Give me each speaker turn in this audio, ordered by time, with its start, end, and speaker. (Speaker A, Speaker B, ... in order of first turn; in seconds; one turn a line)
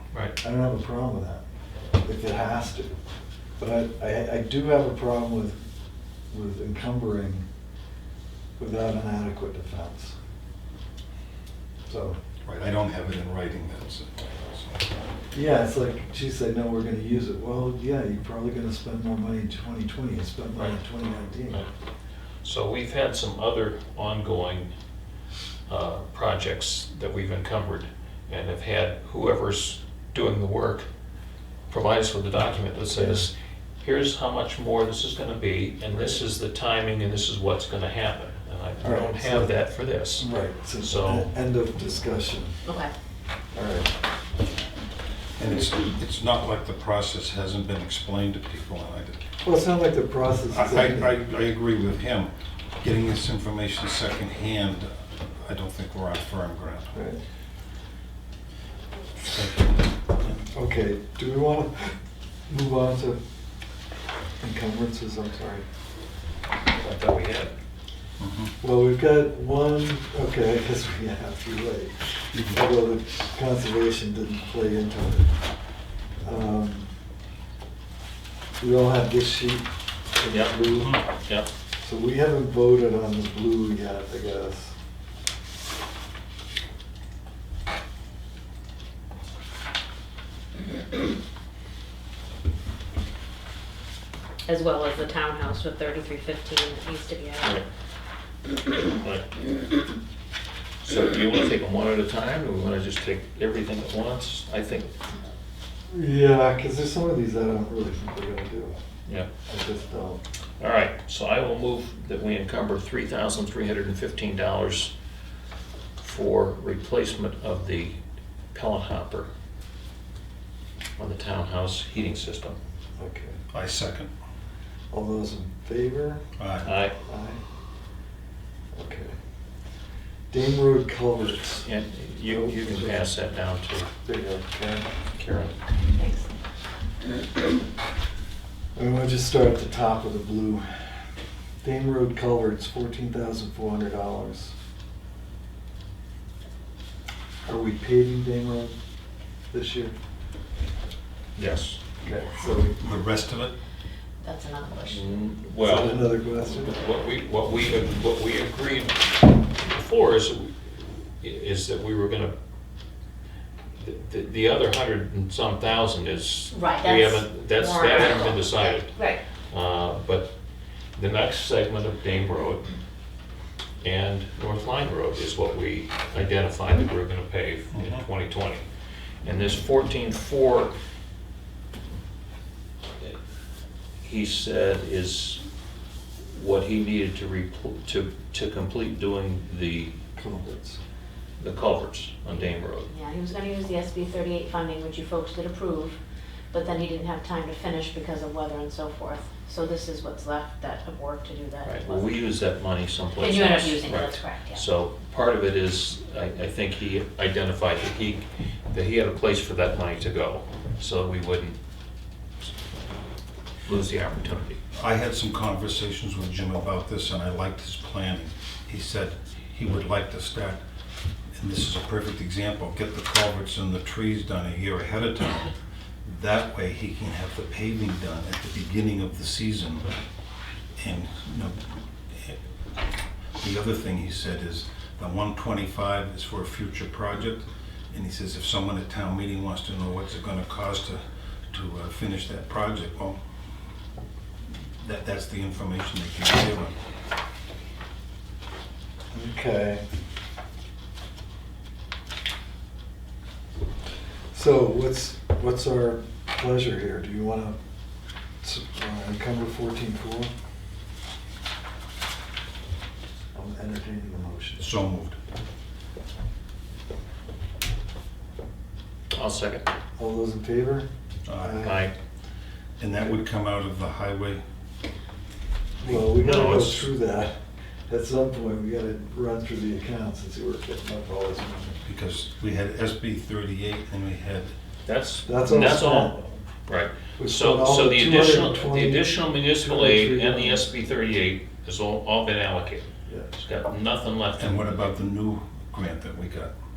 Speaker A: 0.4-1.4
Speaker A: 2.0-2.9
Speaker A: 3.6-5.6
Speaker A: 6.3-7.5
Speaker A: 8.6-10.2
Speaker A: 11.9-12.2
Speaker B: 12.4-14.8
Speaker A: 15.3-21.7
Speaker C: 22.4-24.7
Speaker C: 25.7-30.9
Speaker C: 31.7-41.3
Speaker A: 32.9-33.3
Speaker A: 38.8-39.5
Speaker A: 40.2-42.5
Speaker D: 42.6-42.9
Speaker A: 43.5-43.9
Speaker B: 45.4-49.2
Speaker A: 49.4-51.2
Speaker B: 50.5-57.0
Speaker A: 56.9-57.2
Speaker B: 59.3-60.4
Speaker A: 60.4-63.2
Speaker A: 64.4-65.7
Speaker C: 66.8-67.5
Speaker B: 68.2-68.5
Speaker A: 68.6-75.3
Speaker B: 72.3-72.6
Speaker A: 76.2-76.9
Speaker A: 78.6-81.0
Speaker C: 80.3-80.6
Speaker C: 81.1-81.5
Speaker A: 81.8-84.7
Speaker D: 94.5-97.6
Speaker C: 99.0-99.3
Speaker C: 100.8-104.9
Speaker A: 105.9-108.8
Speaker A: 109.5-110.2
Speaker C: 110.6-114.9
Speaker C: 116.0-118.0
Speaker C: 118.5-119.3
Speaker C: 121.0-122.6
Speaker A: 123.0-123.4
Speaker B: 123.5-124.1
Speaker A: 124.9-126.2
Speaker B: 126.4-126.7
Speaker C: 126.7-127.0
Speaker A: 127.0-127.4
Speaker A: 128.7-129.2
Speaker A: 130.3-131.7
Speaker C: 131.4-133.9
Speaker A: 132.3-133.1
Speaker A: 134.0-134.9
Speaker C: 135.2-135.6
Speaker D: 135.9-136.3
Speaker A: 138.8-140.7
Speaker A: 141.6-144.5
Speaker A: 147.4-148.8
Speaker A: 149.5-150.0
Speaker C: 151.4-151.8
Speaker A: 152.0-152.8
Speaker B: 152.8-153.6
Speaker D: 154.2-155.1
Speaker C: 154.9-156.1
Speaker A: 155.6-156.8
Speaker C: 156.6-162.3
Speaker C: 163.8-170.3
Speaker D: 166.5-169.2
Speaker C: 171.0-172.8
Speaker C: 173.8-178.7
Speaker B: 177.7-178.1
Speaker C: 179.2-180.7
Speaker C: 184.0-185.4
Speaker C: 186.3-189.9
Speaker A: 190.2-190.8
Speaker C: 191.4-192.9
Speaker D: 192.9-196.0
Speaker D: 196.5-202.2
Speaker C: 201.6-211.6
Speaker D: 203.2-204.6
Speaker C: 213.7-214.6
Speaker B: 214.7-220.6
Speaker B: 221.4-225.5
Speaker B: 226.0-229.9
Speaker B: 230.8-232.4
Speaker B: 233.4-243.2
Speaker B: 244.8-246.8
Speaker A: 249.1-249.8
Speaker A: 254.3-257.6
Speaker A: 258.4-260.3
Speaker A: 263.3-264.7
Speaker B: 264.6-265.2
Speaker C: 269.1-269.7
Speaker A: 270.0-271.9
Speaker B: 271.3-271.6
Speaker C: 271.6-271.9
Speaker B: 272.8-274.4
Speaker A: 275.8-277.4
Speaker C: 275.8-276.9
Speaker A: 277.9-281.8
Speaker B: 281.9-284.5
Speaker C: 284.9-286.1
Speaker A: 285.3-286.3
Speaker C: 286.7-294.7
Speaker A: 287.2-290.6
Speaker B: 294.4-296.5